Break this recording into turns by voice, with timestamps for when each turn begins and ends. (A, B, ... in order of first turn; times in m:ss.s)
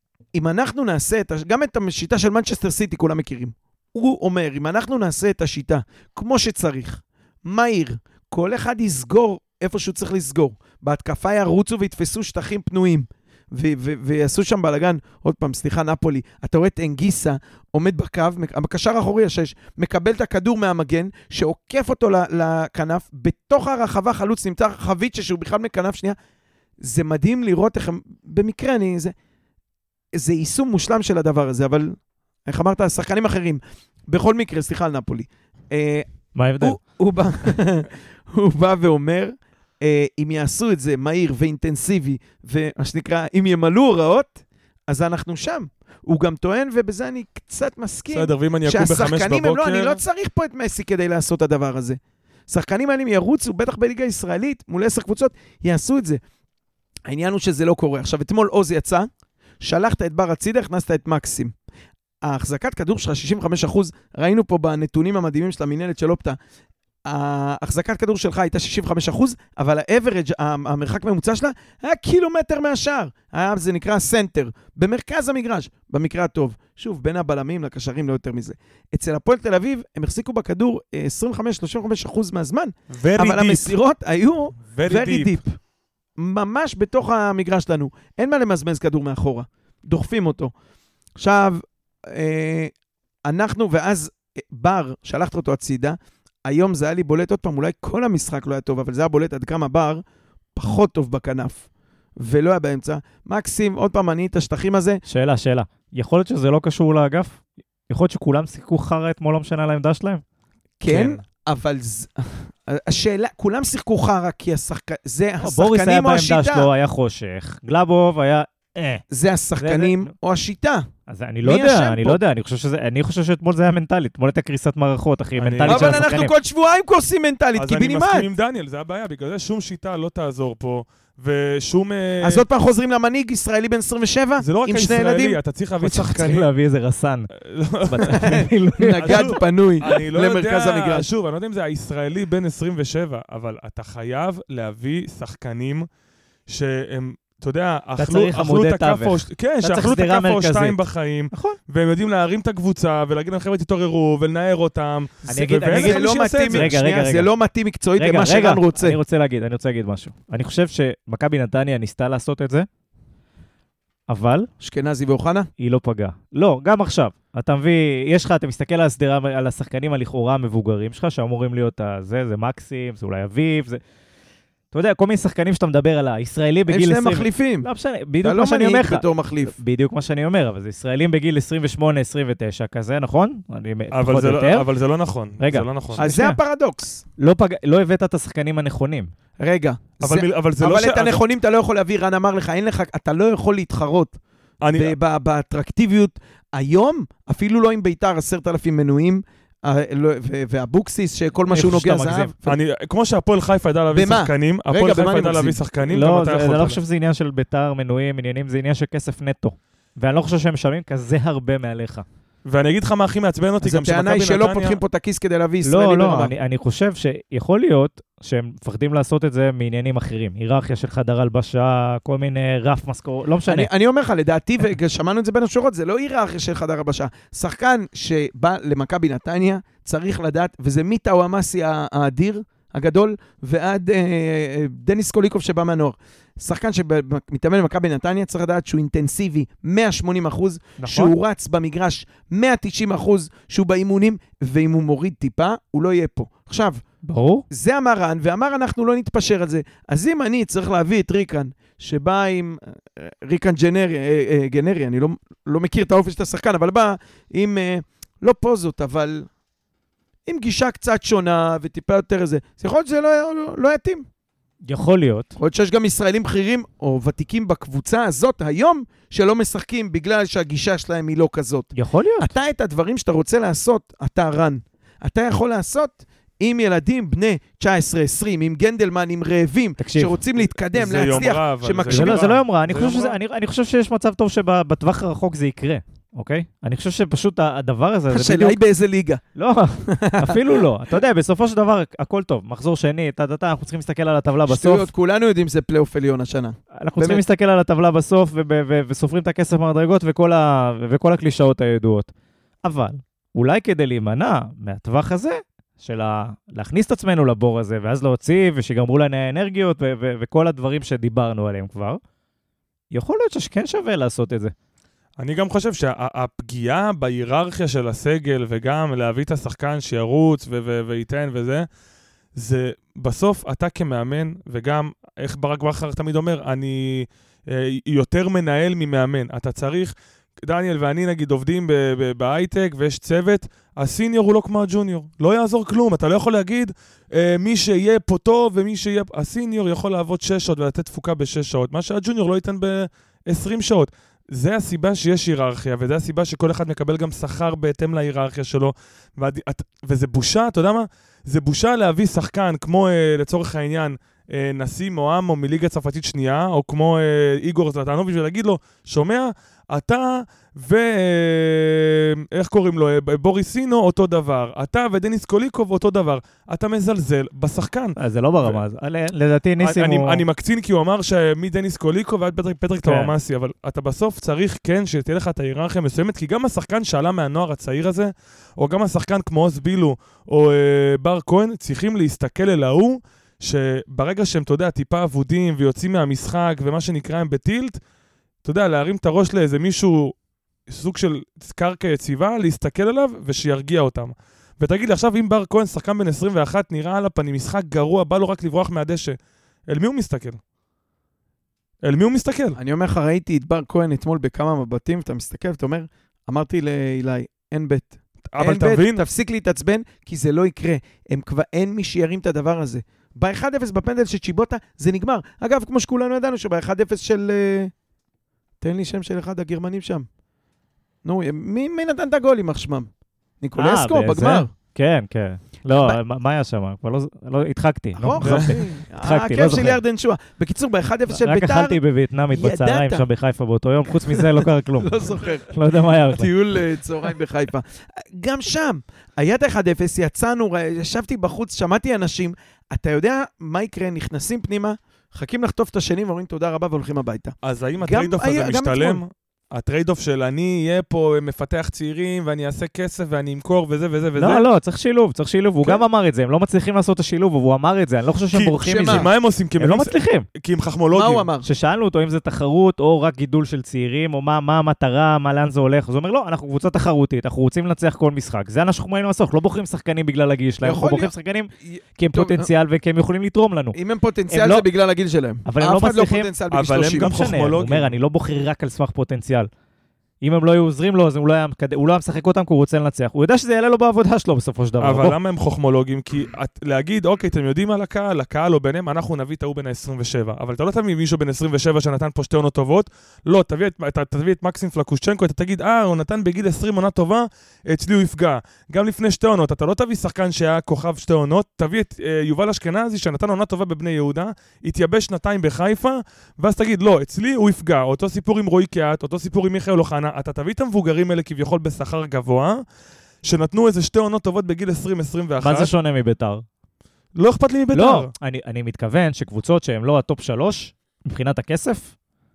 0:00.3-0:26.2 A
0:26.8-0:29.1 A
0:30.2-0:32.0 A
0:32.5-0:36.0 A
0:36.4-0:36.8 B
0:36.6-0:56.2 A
0:48.1-0:50.0 C
0:57.1-0:59.1 A
0:59.6-1:01.5 A
1:02.2-1:06.4 A
1:07.0-1:25.6 A
1:22.9-1:23.8 C
1:24.7-1:25.3 C
1:26.2-1:30.5 A
1:31.2-1:32.7 A
1:33.3-1:40.0 A
1:40.6-1:41.7 A
1:42.2-1:45.0 A
1:45.1-1:50.2 B
1:50.8-1:56.7 A
1:50.9-1:51.2 C
1:55.4-1:59.0 B
1:59.1-2:00.9 A
1:59.6-2:00.1 B
2:01.1-2:06.3 B
2:01.4-2:02.2 A
2:05.4-2:06.0 C
2:05.7-2:08.3 A
2:07.6-2:12.4 C
2:12.2-2:15.4 A
2:14.4-2:16.5 C
2:15.8-2:17.3 B
2:17.3-2:25.9 C
2:17.9-2:19.4 B
2:18.2-2:21.1 A
2:26.5-2:36.7 C
2:28.0-2:30.8 B
2:31.3-2:31.6 B
2:35.3-2:37.3 B
2:35.6-2:39.0 A
2:38.0-2:42.7 B
2:44.1-2:44.5 B
2:44.6-2:45.5 A
2:45.6-2:53.8 B
2:54.7-3:04.7 B
2:56.7-2:57.7 A
2:58.2-2:59.6 A
3:03.9-3:06.1 C
3:05.4-3:06.4 B
3:06.0-3:07.0 A
3:07.2-3:09.1 B
3:09.4-3:14.2 A
3:10.0-3:11.2 C
3:14.6-3:15.0 C
3:14.7-3:22.6 A
3:21.5-3:22.3 B
3:22.4-3:26.8 C
3:23.9-3:25.6 A
3:25.9-3:32.0 B
3:32.4-3:34.8 C
3:33.6-3:36.3 A
3:35.6-3:43.7 B
3:43.5-4:06.8 A
4:00.8-4:01.1 C
4:07.1-4:07.4 B
4:07.5-4:19.3 A
4:20.3-4:24.1 A
4:24.7-4:25.3 B
4:25.4-4:42.3 A
4:31.8-4:32.3 B
4:39.8-4:40.2 B
4:40.7-4:43.2 C
4:41.9-4:48.6 B
4:48.1-4:49.2 A
4:49.4-4:54.9 B
4:49.8-4:50.6 A
4:54.5-4:57.2 A
4:56.8-5:02.1 B
5:02.6-5:12.0 B
5:12.9-5:14.5 B
5:15.2-5:21.7 C
5:22.4-6:08.6 C
6:08.0-6:10.2 B
6:09.6-6:27.8 C
6:12.8-6:13.1 B
6:28.4-6:30.1 C
6:30.7-6:39.2 C
6:39.7-6:40.4 C
6:41.8-6:42.6 C
6:42.6-6:57.7 A
6:48.3-6:49.0 C
6:58.6-7:00.1 A
7:01.0-7:02.9 A
7:03.4-7:04.5 A
7:03.6-7:09.8 B
7:05.7-7:06.0 A
7:08.0-7:11.8 A
7:08.2-7:08.5 C
7:11.1-7:16.3 B
7:12.3-7:13.0 A
7:14.1-7:15.5 A
7:16.1-7:29.0 A
7:27.4-7:34.5 C
7:34.2-7:40.3 B
7:38.3-7:41.3 C
7:38.6-7:39.1 A
7:40.9-7:41.5 A
7:41.4-7:53.8 B
7:50.6-7:51.1 A
7:51.6-7:52.5 A
7:53.7-7:57.1 A
7:54.3-7:54.7 B
7:55.4-7:56.3 B
7:56.5-7:58.0 C
7:57.0-7:59.5 B
8:00.2-8:05.2 B
8:04.8-8:32.6 C
8:33.2-8:35.7 C
8:35.4-8:36.4 B
8:37.2-8:38.1 C
8:37.7-8:41.9 B